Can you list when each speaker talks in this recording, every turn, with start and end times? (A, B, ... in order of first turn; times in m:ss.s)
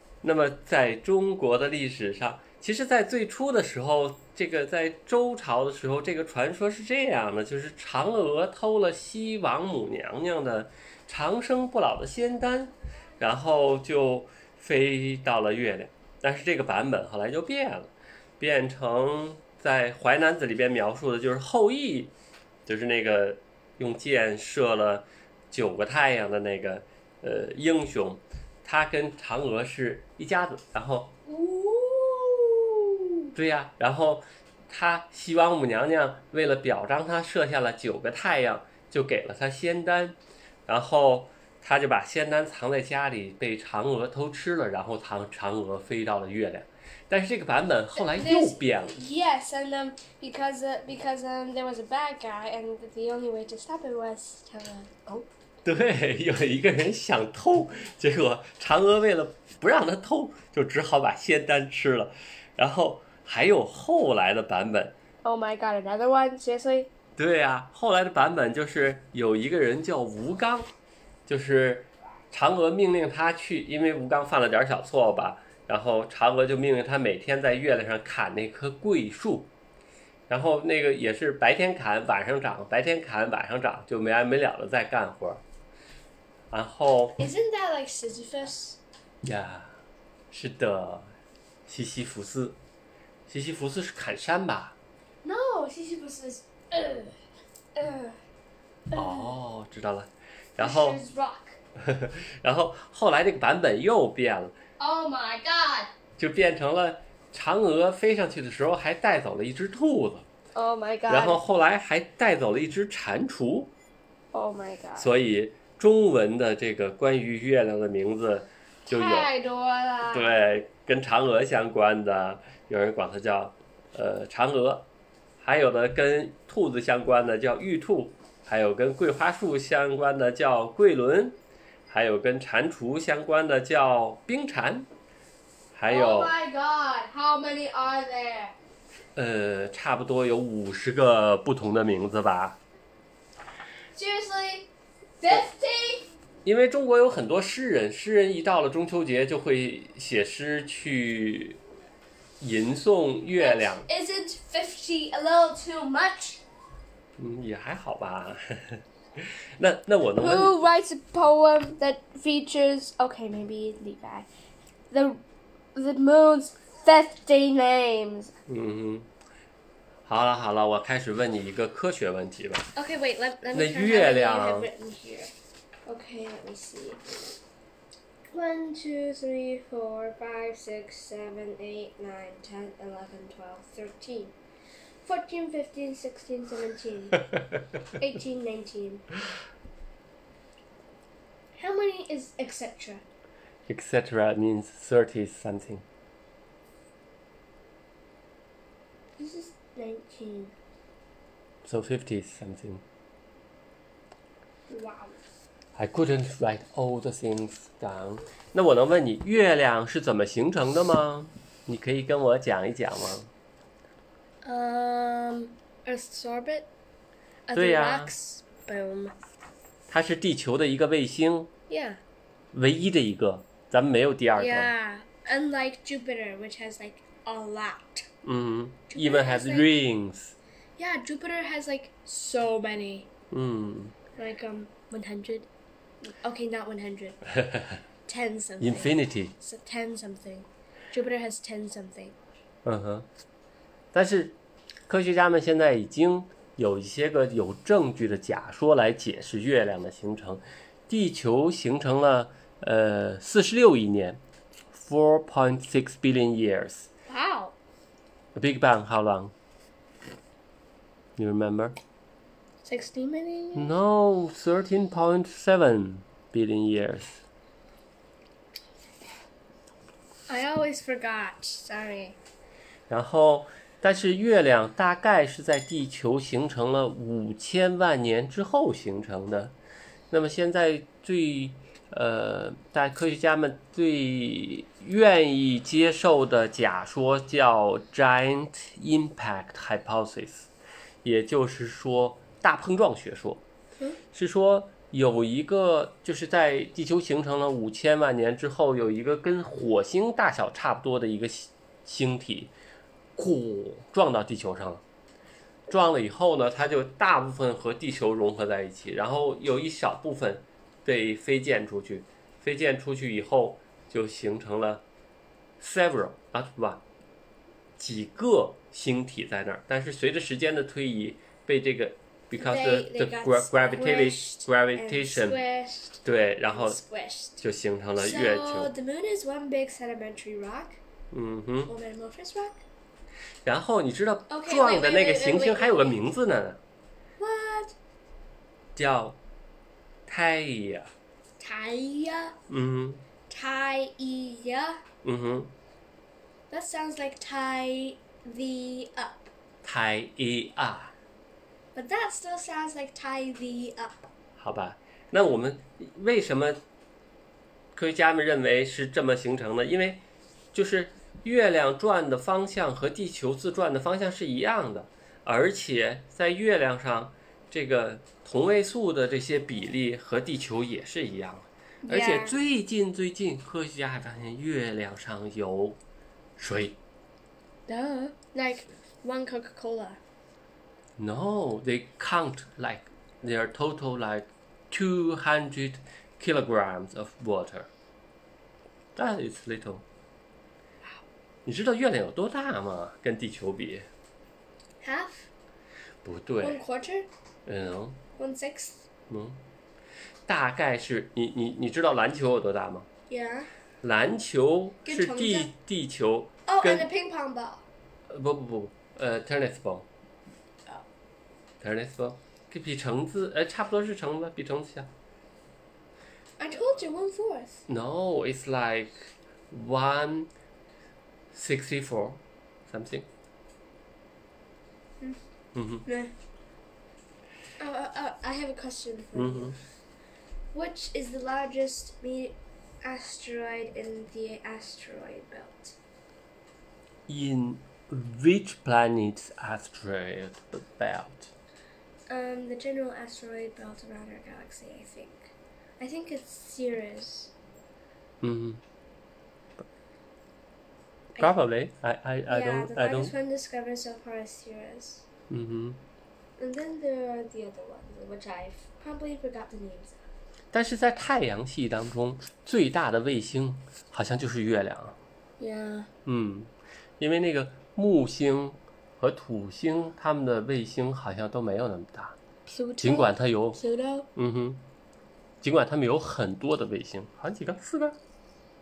0:00.2-0:22.1 A
0:22.6-0:31.2 A
0:31.2-0:33.0 B
0:33.3-0:48.9 A
0:48.0-0:55.2 B
0:55.6-1:05.0 A
1:05.2-1:06.9 B
1:07.2-1:10.7 A
1:11.3-1:19.5 A
1:20.3-1:25.4 A
1:26.5-1:27.2 A
1:27.2-1:28.8 B
1:29.2-1:29.8 A
1:30.3-1:31.1 A
1:31.7-1:32.6 A
1:33.3-1:34.8 A
1:35.2-1:37.2 B
1:37.8-1:38.2 B
1:38.9-1:39.3 B
1:38.9-1:41.0 A
1:40.6-1:41.6 B
1:41.8-1:44.6 A
1:44.8-1:45.9 B
1:46.2-1:50.3 A
1:50.6-1:51.4 B
1:51.1-1:53.7 A
1:54.3-1:55.1 B
1:55.0-1:59.3 A
1:58.9-2:00.4 B
2:00.1-2:04.9 A
2:05.4-2:14.9 A
2:15.7-2:16.3 A
2:15.9-2:18.6 B
2:19.2-2:22.6 A
2:24.0-2:26.1 B
2:26.4-2:31.6 A
2:32.4-2:33.9 A
2:33.4-2:36.4 B
2:37.2-2:40.6 A
2:40.2-2:44.3 B
2:44.9-2:45.2 B
2:45.7-2:48.3 B
2:48.5-2:49.1 A
2:50.0-2:52.7 A
2:52.8-2:55.3 B
2:53.5-2:54.7 A
2:55.8-2:57.2 B
2:58.3-3:04.3 B
3:05.0-3:07.3 B
3:08.0-3:09.1 B
3:11.6-3:13.0 B
3:13.7-3:15.8 A
3:19.2-3:20.5 B
3:21.6-3:22.8 A
3:24.7-3:25.2 B
3:25.8-3:33.3 A
3:34.4-3:36.7 B
3:37.5-3:39.2 B
3:37.6-3:38.1 A
3:39.9-3:41.5 A
3:41.7-3:42.0 B
3:42.5-3:44.7 A
3:44.4-3:48.1 B
3:48.2-3:50.4 A
3:48.9-3:49.7 B
3:50.8-3:53.1 B
3:53.3-3:53.9 A
3:54.2-3:55.5 B
3:56.0-3:57.2 B
3:57.4-3:57.8 A
3:58.1-4:02.2 B
3:58.6-3:59.3 A
4:02.6-4:03.1 A
4:03.9-4:04.4 A
4:04.9-4:14.2 A
4:14.7-4:16.9 A
4:17.1-4:17.6 B
4:18.3-4:19.3 A
4:21.2-4:21.8 A
4:22.6-4:23.7 B
4:23.6-4:27.2 A
4:30.3-4:32.2 B
4:32.9-4:39.6 A
4:40.1-4:50.5 A
4:51.0-4:53.4 A
4:54.1-5:02.5 A
5:03.2-5:04.8 A
5:05.7-5:14.8 A
5:15.6-5:16.8 A
5:17.8-5:25.4 A
5:22.4-5:27.4 B
5:26.0-5:26.8 A
5:27.4-5:28.7 A
5:28.0-5:30.8 B
5:31.1-5:31.7 A
5:31.7-5:32.6 B
5:33.4-5:36.6 A
5:34.3-5:36.0 B
5:37.2-5:37.8 B
5:38.8-5:39.2 A
5:40.1-5:40.9 A
5:41.4-5:42.4 B
5:42.5-5:43.0 A
5:43.3-5:44.8 B
5:45.0-5:45.5 A
5:46.5-5:49.3 B
5:49.6-5:50.9 A
5:51.7-5:54.1 B
5:54.4-5:56.6 A
5:57.7-6:15.8 A
6:11.8-6:12.4 B
6:16.4-6:16.8 A
6:17.7-6:20.0 B
6:21.0-6:27.7 A
6:28.9-6:29.8 A
6:31.4-6:33.9 A
6:34.8-6:35.3 B
6:36.0-6:36.6 A
6:36.4-6:37.1 B
6:37.4-6:38.0 A
6:38.2-6:38.9 B
6:39.1-6:39.4 A
6:40.2-6:42.9 A
6:43.1-6:43.5 B
6:43.8-6:46.9 A
6:44.8-6:45.5 B
6:46.4-6:47.6 B
6:48.1-6:49.9 A
6:51.6-6:54.9 A
6:56.4-6:57.6 B
6:57.7-7:00.3 A
7:01.3-7:03.1 A
7:05.5-7:05.8 A
7:05.8-7:06.1 B
7:07.6-7:09.6 B
7:09.2-7:09.6 A
7:10.5-7:15.8 B
7:17.1-7:21.3 A
7:22.1-7:27.3 B
7:28.2-7:28.6 A
7:31.2-7:33.1 A
7:32.3-7:35.0 B
7:35.3-7:35.8 A
7:36.4-7:40.0 B
7:40.5-7:45.0 A
7:45.4-7:45.9 B
7:46.0-7:52.2 A
7:52.5-7:54.1 B
7:52.8-7:53.6 A
7:54.2-7:54.6 A
7:55.4-7:58.0 A